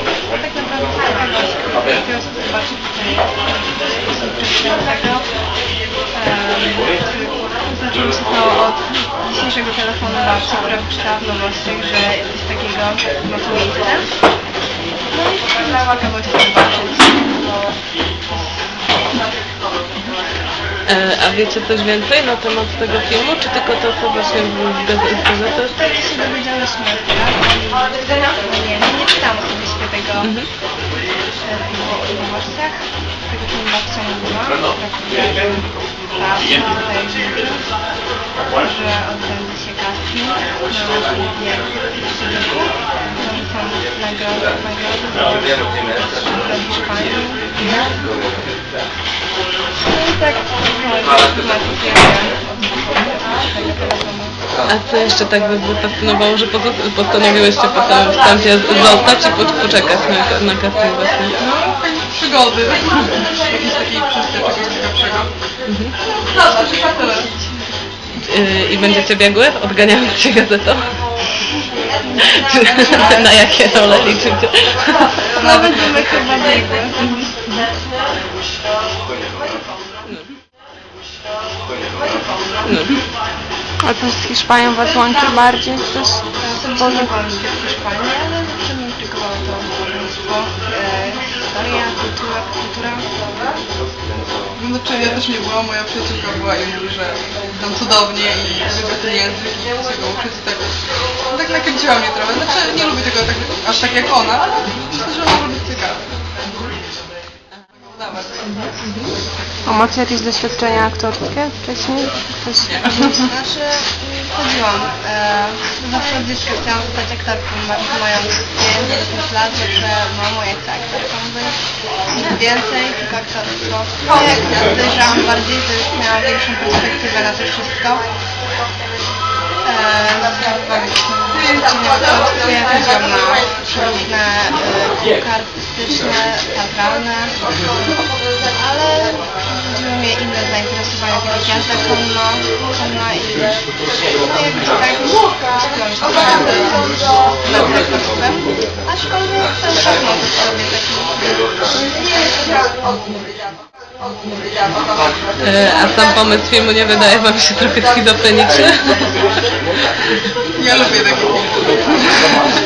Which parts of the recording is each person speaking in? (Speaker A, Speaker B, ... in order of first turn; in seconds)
Speaker A: 0.3-5.3, 6.1-14.1, 15.1-17.4, 18.3-18.6, 25.7-30.4, 31.4-37.6, 38.6-45.4, 46.0-47.4, 49.8-54.4, 75.3-77.2, 86.4-93.0, 113.0-121.6, 122.1-128.0, 129.6-137.4, 138.5-143.6, 144.2-146.8, 147.4-152.2
Speaker B: 20.9-25.7, 30.2-30.5, 54.7-61.3, 65.7-65.9, 68.2-70.9, 72.3-75.6, 82.7-82.9, 108.6-109.1, 155.4-159.1
Speaker C: 61.4-65.3, 66.3-67.5, 72.9-73.2, 94.5-100.7, 101.3-106.1, 107.8-108.4, 160.6-162.1
Speaker D: 83.8-86.2, 86.8-87.1, 109.7-113.2